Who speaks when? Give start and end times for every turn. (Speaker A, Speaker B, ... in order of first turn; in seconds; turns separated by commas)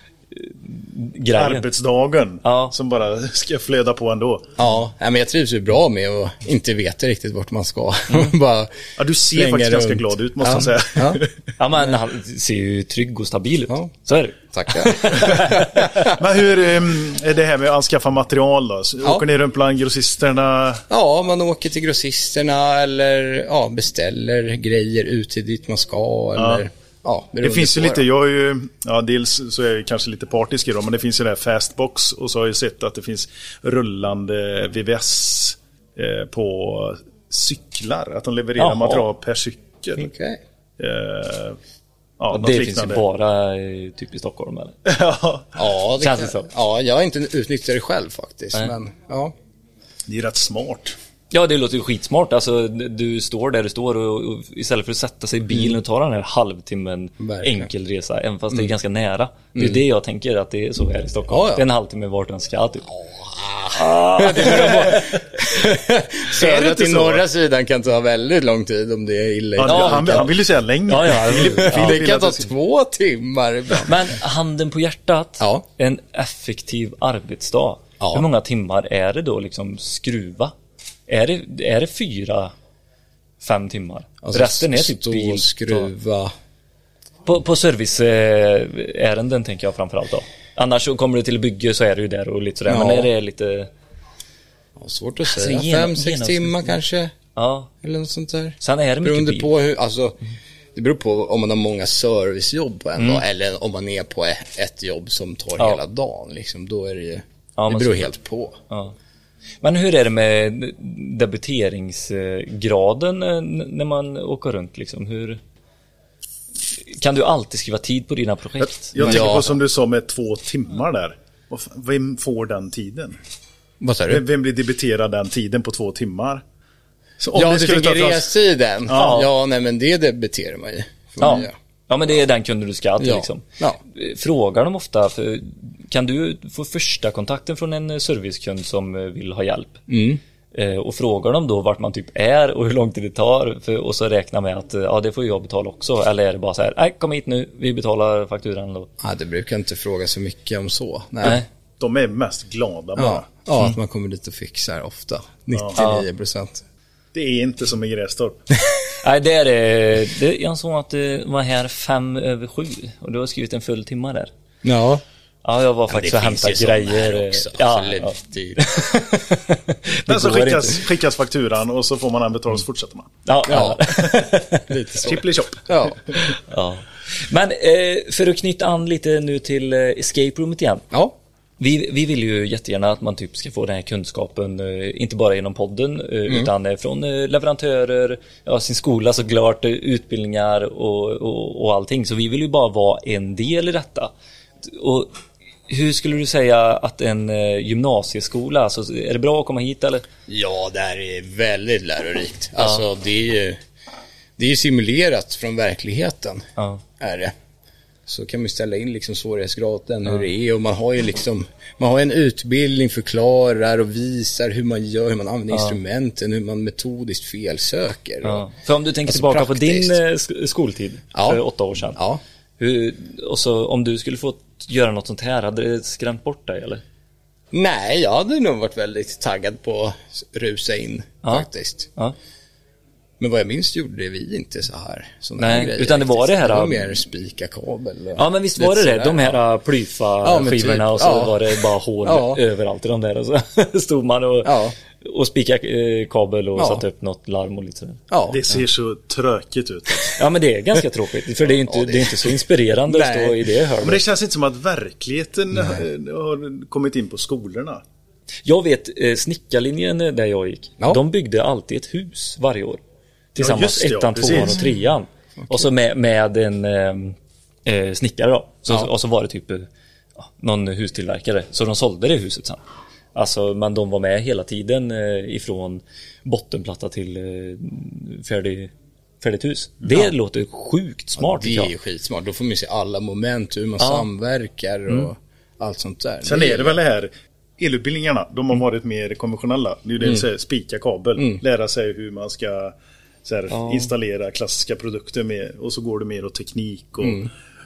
Speaker A: 0.3-1.6, Speaker B: 1.3-4.5, Speaker A: 2.4-2.7, Speaker C: 4.6-8.8, Speaker B: 9.0-11.3, Speaker C: 9.3-11.2, Speaker A: 11.6-16.1, Speaker C: 13.7-16.1, Speaker B: 16.0-20.8, Speaker C: 20.9-28.1, Speaker B: 26.4-26.6, Speaker B: 27.4-40.1, Speaker A: 38.6-39.0, Speaker C: 40.0-40.4, Speaker B: 40.8-41.6, Speaker B: 42.2-43.0, Speaker A: 42.3-44.8, Speaker B: 44.9-45.5, Speaker C: 45.5-49.3, Speaker A: 46.0-46.5, Speaker B: 50.1-51.0, Speaker A: 51.3-62.9, Speaker C: 57.2-57.7, Speaker C: 59.5-59.8, Speaker C: 61.3-61.6, Speaker C: 62.9-70.4, Speaker A: 63.7-65.2, Speaker B: 66.3-67.2, Speaker B: 69.6-72.5, Speaker A: 69.6-70.3, Speaker A: 70.9-72.0, Speaker C: 71.3-74.1, Speaker A: 73.8-80.5, Speaker C: 78.0-78.2, Speaker A: 81.1-82.5, Speaker A: 83.4-85.9, Speaker C: 84.2-86.3, Speaker A: 87.2-93.7, Speaker C: 92.7-93.1, Speaker C: 94.8-97.1, Speaker A: 95.3-96.7, Speaker A: 97.3-97.7, Speaker C: 97.8-100.2, Speaker A: 98.6-99.5, Speaker C: 100.7-108.5, Speaker A: 103.0-103.2, Speaker A: 107.6-108.1, Speaker A: 109.6-115.4, Speaker A: 116.9-119.4, Speaker B: 118.6-123.2, Speaker C: 119.0-119.5, Speaker C: 123.8-124.2, Speaker B: 124.1-126.4, Speaker B: 127.2-128.3, Speaker C: 127.3-131.5, Speaker B: 128.9-129.2, Speaker A: 128.9-129.3, Speaker A: 131.2-139.8, Speaker C: 133.0-133.8, Speaker C: 139.9-140.2, Speaker A: 140.5-148.9, Speaker C: 149.0-151.4, Speaker B: 151.8-153.3, Speaker C: 152.9-156.6, Speaker B: 155.5-155.8, Speaker B: 157.1-158.4, Speaker A: 159.0-164.3, Speaker C: 164.6-165.0, Speaker A: 165.4-170.8, Speaker C: 165.9-169.0, Speaker B: 170.1-173.1, Speaker A: 173.2-174.6, Speaker C: 173.4-176.0, Speaker B: 175.0-176.3, Speaker A: 176.5-180.8, Speaker A: 181.6-194.1, Speaker A: 194.6-195.1, Speaker A: 195.7-200.0, Speaker C: 200.3-203.6, Speaker C: 204.4-206.5, Speaker C: 207.0-207.3, Speaker C: 208.1-218.5, Speaker A: 215.5-215.8, Speaker A: 218.2-222.0, Speaker C: 219.1-220.0, Speaker C: 221.1-221.4, Speaker C: 221.9-222.2, Speaker A: 222.6-226.8, Speaker C: 227.5-231.9, Speaker A: 231.2-232.1, Speaker C: 233.2-239.4, Speaker A: 235.4-236.8, Speaker A: 238.2-248.0, Speaker C: 240.2-242.4, Speaker C: 244.4-244.7, Speaker C: 246.6-246.8, Speaker C: 248.1-248.4, Speaker B: 248.3-250.2, Speaker A: 250.2-254.0, Speaker C: 251.6-253.4, Speaker B: 253.8-257.8, Speaker A: 258.4-262.8, Speaker A: 263.3-272.6, Speaker B: 263.4-264.6, Speaker C: 265.4-265.7, Speaker A: 273.1-281.7, Speaker C: 281.2-286.8, Speaker A: 283.8-284.1, Speaker B: 286.2-292.7, Speaker B: 293.2-297.3, Speaker A: 293.5-293.9